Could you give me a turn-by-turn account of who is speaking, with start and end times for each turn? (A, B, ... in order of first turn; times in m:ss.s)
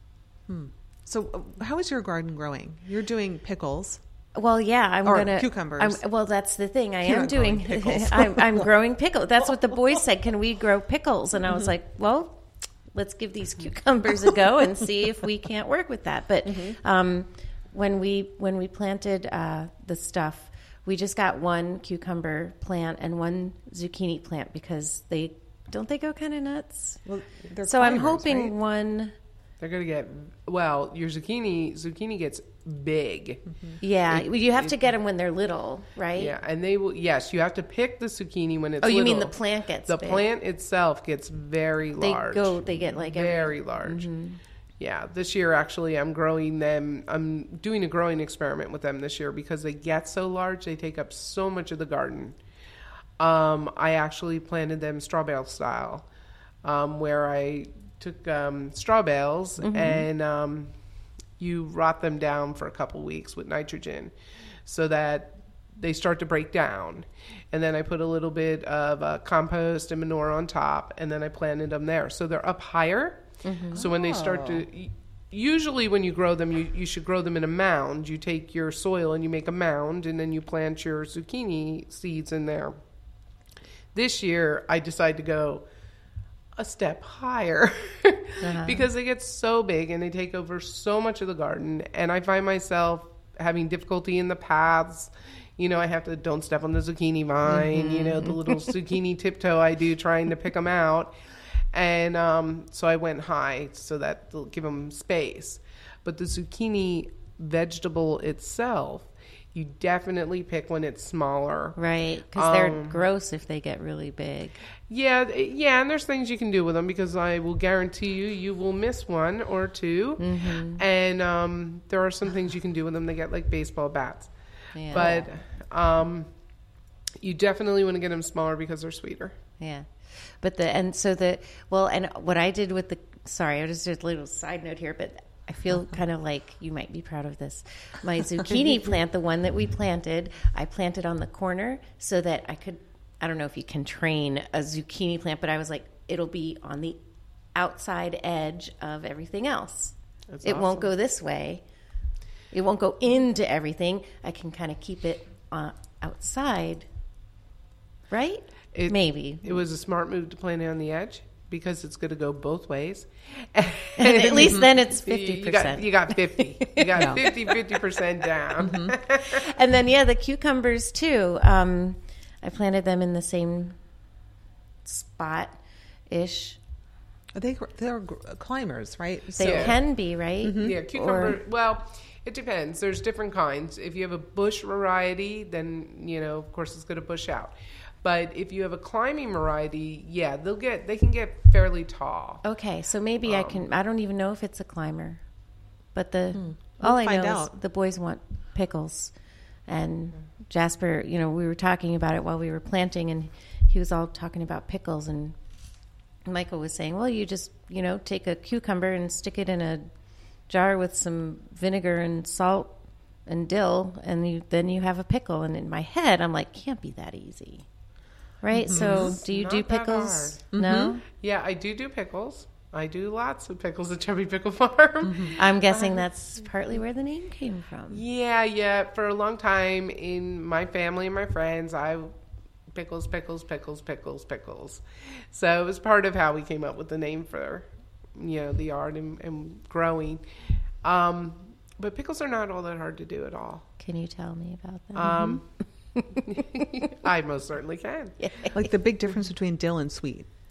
0:00.5-0:04.0 A
0:04.4-0:12.4 B
0:05.0-0:06.0 A
0:07.0-0:08.8 A
0:12.9-0:27.0 B
0:16.4-0:16.8 A
0:27.0-0:28.6 A
0:27.7-0:29.2 B
0:29.6-0:33.4 C
0:33.8-0:36.4 B
0:34.1-0:34.8 C
0:36.2-0:39.4 C
0:38.8-0:40.3 B
0:39.9-0:44.1 C
0:42.0-0:44.4 B
0:44.8-0:52.4 C
0:53.2-0:56.1 C
0:56.6-1:00.7 C
0:59.6-1:00.1 B
1:01.4-1:04.1 C
1:04.7-1:22.8 C
1:13.4-1:13.9 B
1:13.9-1:14.6 A
1:23.9-1:25.6 C
1:26.6-1:41.2 C
1:28.4-1:28.9 B
1:37.5-1:38.6 B
1:41.7-1:51.8 C
1:51.8-1:54.6 B
1:52.4-1:53.1 C
1:54.9-2:04.3 C
2:00.2-2:00.8 B
2:04.8-2:05.3 B
2:04.9-2:06.3 C
2:07.2-2:09.4 C
2:09.6-2:09.9 B
2:10.4-2:27.0 B
2:27.6-2:31.6 B
2:30.3-2:30.9 C
2:32.5-2:36.9 B
2:38.1-2:39.6 B
2:38.7-2:49.5 C
2:44.0-2:47.8 B
2:46.9-2:47.2 A
2:48.6-2:48.9 A
2:49.3-2:53.8 B
2:54.8-2:56.6 B
2:57.4-2:59.8 A
2:59.4-3:01.4 B
2:59.4-2:59.8 C
3:00.4-3:00.8 A
3:00.6-3:12.4 C
3:12.4-3:15.2 B
3:13.2-3:13.6 C
3:15.9-3:19.1 B
3:16.3-3:17.6 A
3:19.7-3:25.4 B
3:26.3-3:29.9 B
3:30.5-3:32.7 B
3:33.3-3:37.6 B
3:38.4-3:41.0 B
3:38.6-3:39.2 A
3:38.7-3:40.4 C
3:40.5-3:41.0 A
3:41.2-3:46.1 C
3:45.0-3:45.4 A
3:45.4-3:48.0 B
3:47.9-3:52.1 C
3:52.7-4:00.2 C
4:00.8-4:03.7 C
4:03.8-4:05.4 B
4:04.9-4:05.5 C
4:06.0-4:06.4 B
4:06.3-4:08.2 C
4:08.2-4:08.7 B
4:08.5-4:10.3 A